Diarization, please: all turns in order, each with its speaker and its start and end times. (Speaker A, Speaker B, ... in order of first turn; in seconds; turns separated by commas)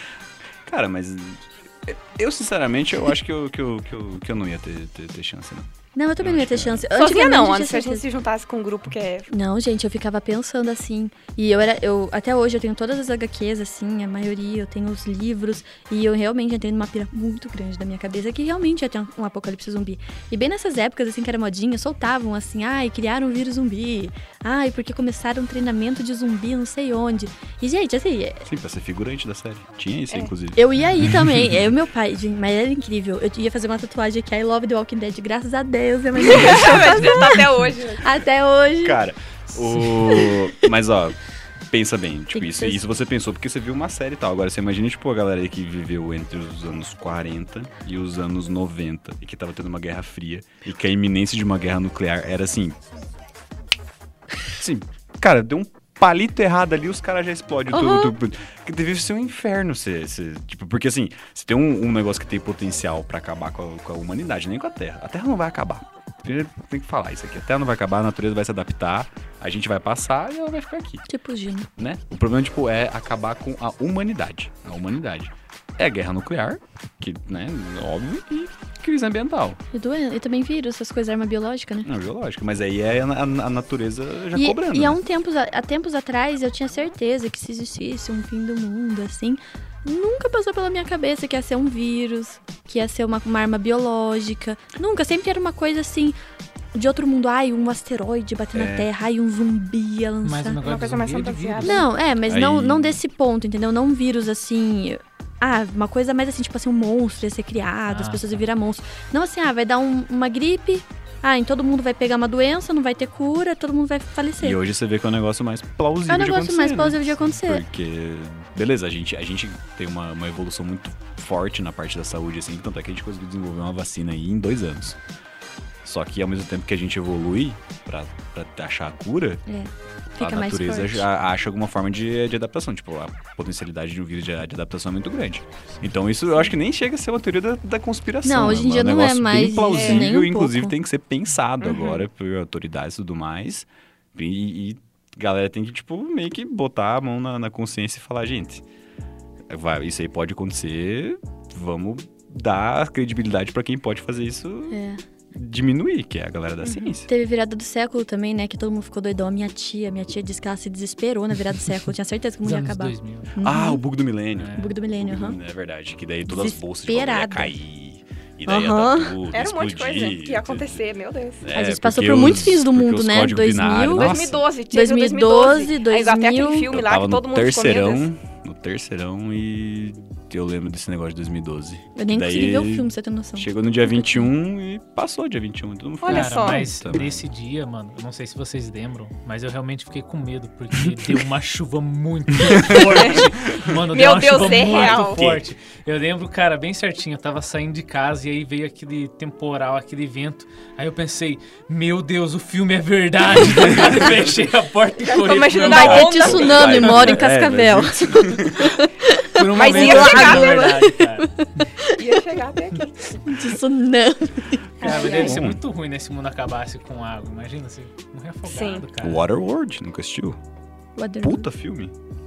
Speaker A: 0.7-6.9, Speaker B: 5.9-8.0, Speaker C: 6.9-9.3, Speaker B: 9.3-28.4, Speaker A: 28.4-31.4, Speaker B: 30.6-39.0, Speaker C: 36.2-38.1, Speaker A: 38.8-41.1, Speaker B: 39.8-40.7, Speaker A: 41.7-52.8, Speaker B: 42.3-42.8, Speaker A: 54.6-71.1, Speaker B: 57.7-58.1, Speaker B: 71.1-71.7, Speaker A: 71.8-79.6, Speaker B: 79.7-81.9, Speaker A: 81.8-85.0, Speaker B: 84.3-96.2, Speaker B: 96.7-100.6, Speaker A: 98.5-98.9, Speaker D: 100.2-101.9, Speaker C: 100.6-101.8, Speaker B: 101.6-114.6, Speaker A: 102.2-103.0, Speaker D: 107.9-108.4, Speaker A: 114.4-125.0, Speaker B: 116.1-117.6, Speaker A: 125.8-129.4, Speaker B: 129.5-131.0, Speaker A: 130.2-148.6, Speaker B: 138.2-140.7, Speaker C: 139.7-140.1, Speaker C: 141.6-142.0, Speaker A: 149.5-154.8, Speaker B: 154.7-155.0, Speaker A: 155.3-157.1, Speaker B: 157.1-163.8, Speaker D: 162.4-163.4, Speaker A: 163.4-170.8, Speaker D: 164.3-164.7, Speaker B: 164.5-165.4, Speaker B: 166.3-167.5, Speaker B: 168.5-169.2, Speaker C: 169.3-171.5, Speaker A: 171.4-174.4, Speaker B: 171.5-176.7, Speaker C: 173.9-178.1, Speaker A: 176.7-187.2, Speaker B: 181.9-184.3, Speaker C: 186.0-186.7, Speaker D: 186.1-206.4, Speaker A: 192.4-192.9, Speaker C: 192.9-193.2, Speaker C: 193.9-195.3, Speaker A: 194.8-195.4, Speaker A: 203.5-203.9, Speaker C: 205.0-207.0, Speaker B: 205.7-212.1, Speaker A: 205.7-208.8, Speaker D: 209.2-211.6, Speaker C: 209.5-210.8, Speaker C: 211.9-212.9, Speaker B: 213.1-215.2, Speaker C: 214.8-215.4, Speaker D: 214.8-219.2, Speaker A: 215.1-215.6, Speaker C: 218.4-218.8, Speaker A: 219.0-220.4, Speaker B: 220.9-221.5, Speaker A: 221.2-221.9